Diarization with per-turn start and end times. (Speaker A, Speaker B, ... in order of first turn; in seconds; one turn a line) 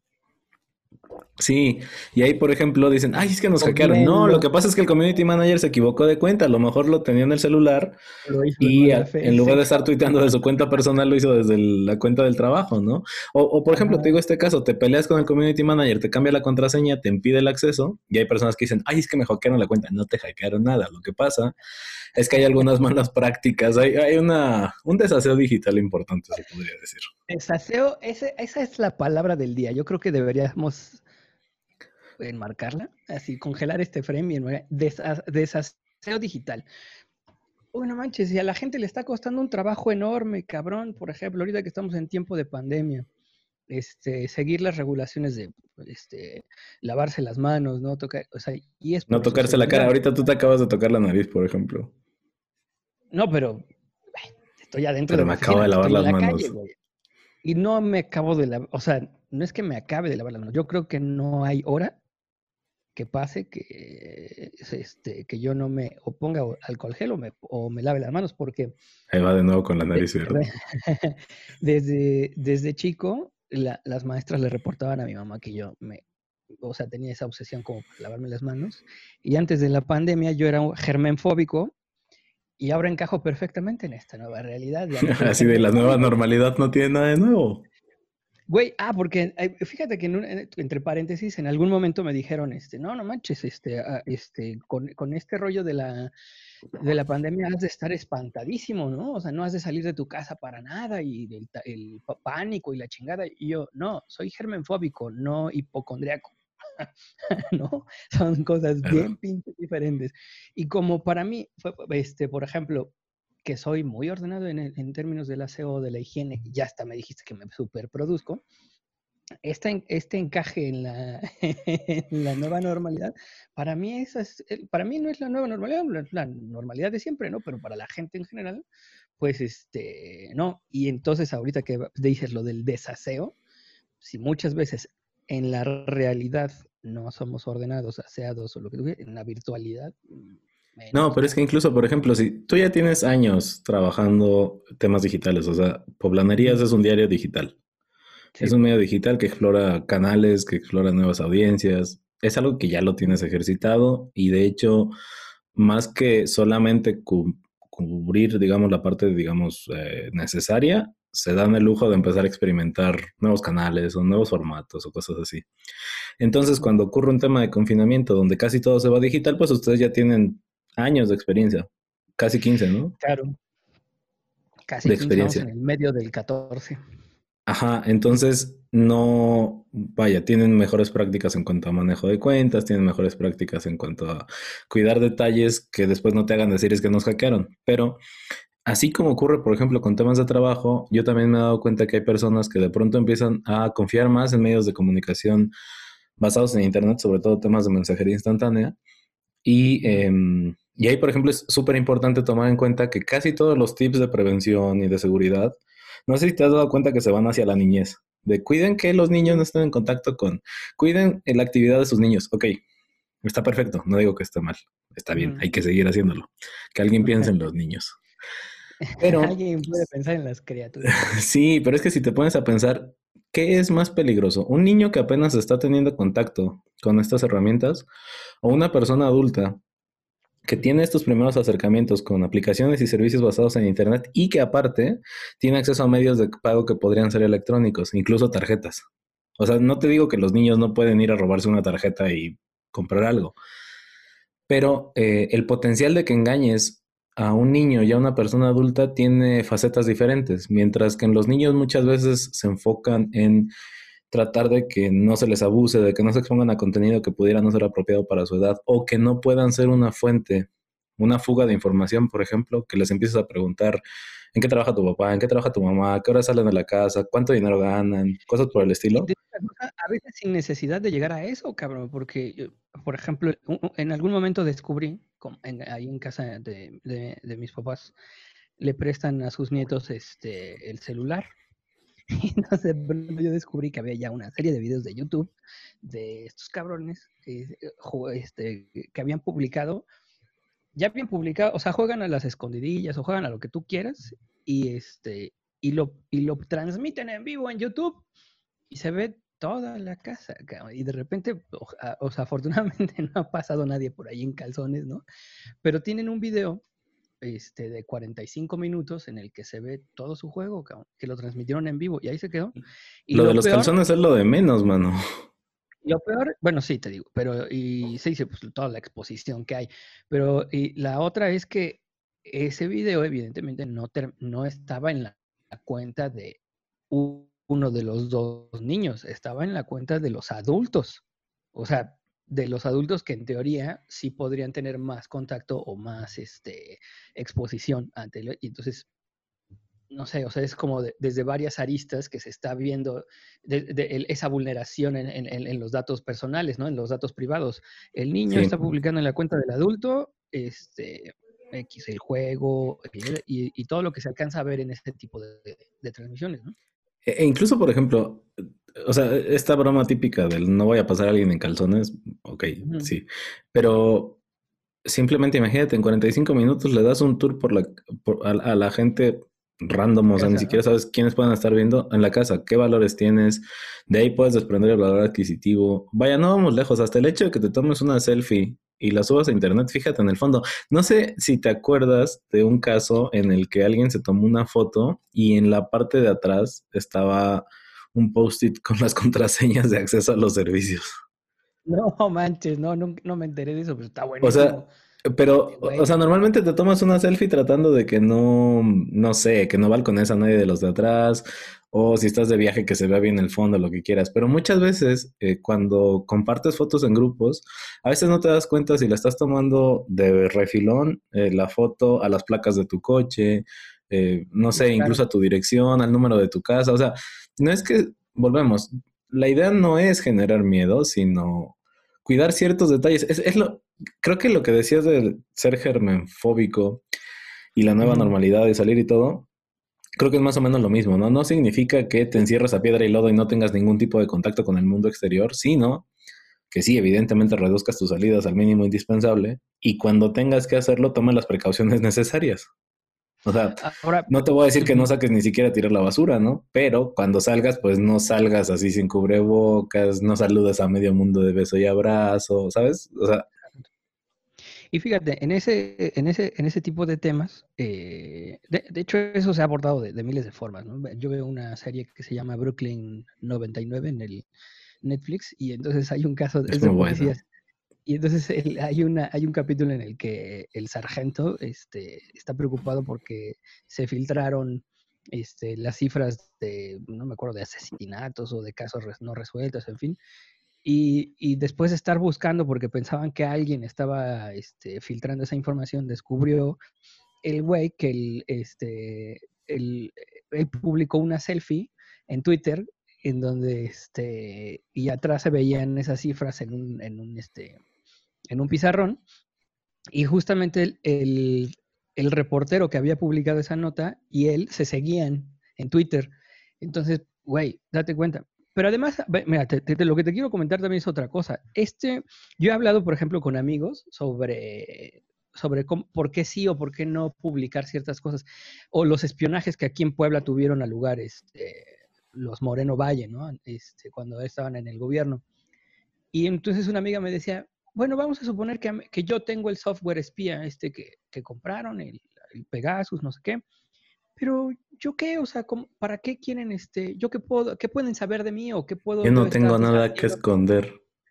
Speaker A: 1.4-8.0
Speaker B: 3.6-4.5
Speaker B: 8.2-9.8
Speaker A: 8.6-21.6
Speaker B: 13.7-14.1
Speaker A: 22.1-27.1
Speaker B: 22.3-22.6
Speaker B: 27.3-31.0
Speaker B: 32.2-36.7
Speaker B: 37.7-43.1
Speaker B: 43.7-50.0
Speaker A: 49.1-51.9
Speaker B: 53.1-53.7
Speaker B: 54.2-56.8
Speaker A: 55.1-56.5
Speaker B: 57.4-62.0
Speaker B: 63.0-68.8
Speaker A: 69.1-70.4
Speaker B: 69.9-76.0
Speaker B: 76.6-81.7
Speaker B: 82.6-86.2
Speaker A: 85.0-87.6
Speaker B: 88.5-96.1
Speaker B: 96.8-118.4
Speaker A: 108.8-109.1
Speaker B: 119.4-128.6
Speaker B: 129.2-133.4
Speaker B: 134.0-141.4
Speaker A: 140.9-147.6
Speaker A: 148.4-154.9
Speaker A: 155.6-165.5
Speaker A: 166.2-172.9
Speaker B: 173.0-173.4
Speaker B: 174.7-176.8
Speaker A: 174.8-175.5
Speaker A: 177.5-188.0
Speaker A: 188.7-195.5
Speaker A: 196.2-198.8
Speaker A: 199.4-212.6
Speaker A: 213.2-218.0
Speaker B: 215.1-215.4
Speaker B: 217.0-217.3
Speaker B: 218.8-221.1
Speaker A: 219.0-219.4
Speaker A: 220.9-227.9
Speaker A: 228.4-229.6
Speaker A: 230.4-238.9
Speaker A: 239.4-243.4
Speaker A: 244.5-253.5
Speaker A: 254.1-263.8
Speaker A: 264.3-269.1
Speaker B: 268.9-277.9
Speaker B: 278.6-281.3
Speaker B: 282.1-289.9
Speaker B: 290.8-298.1
Speaker B: 298.7-305.0
Speaker B: 305.6-306.6
Speaker B: 307.2-313.8
Speaker A: 313.1-315.0
Speaker B: 315.9-326.4
Speaker B: 326.9-331.0
Speaker B: 331.6-338.9
Speaker B: 339.9-356.6
Speaker A: 357.1-364.2
Speaker B: 362.6-362.9
Speaker A: 364.9-390.9
Speaker B: 370.2-370.6
Speaker B: 391.7-394.7
Speaker A: 394.2-426.8
Speaker B: 395.4-395.9
Speaker B: 414.5-415.0
Speaker A: 427.6-429.3
Speaker B: 427.8-428.1
Speaker A: 430.0-435.9
Speaker A: 436.5-442.5
Speaker A: 443.2-453.3
Speaker B: 443.6-444.9
Speaker B: 454.7-464.3
Speaker B: 464.8-467.2
Speaker A: 466.5-467.2
Speaker B: 467.9-480.0
Speaker B: 480.6-486.6
Speaker B: 487.2-497.6
Speaker B: 498.3-499.0
Speaker B: 499.9-525.2
Speaker B: 526.1-533.4
Speaker B: 534.2-540.2
Speaker A: 539.0-540.8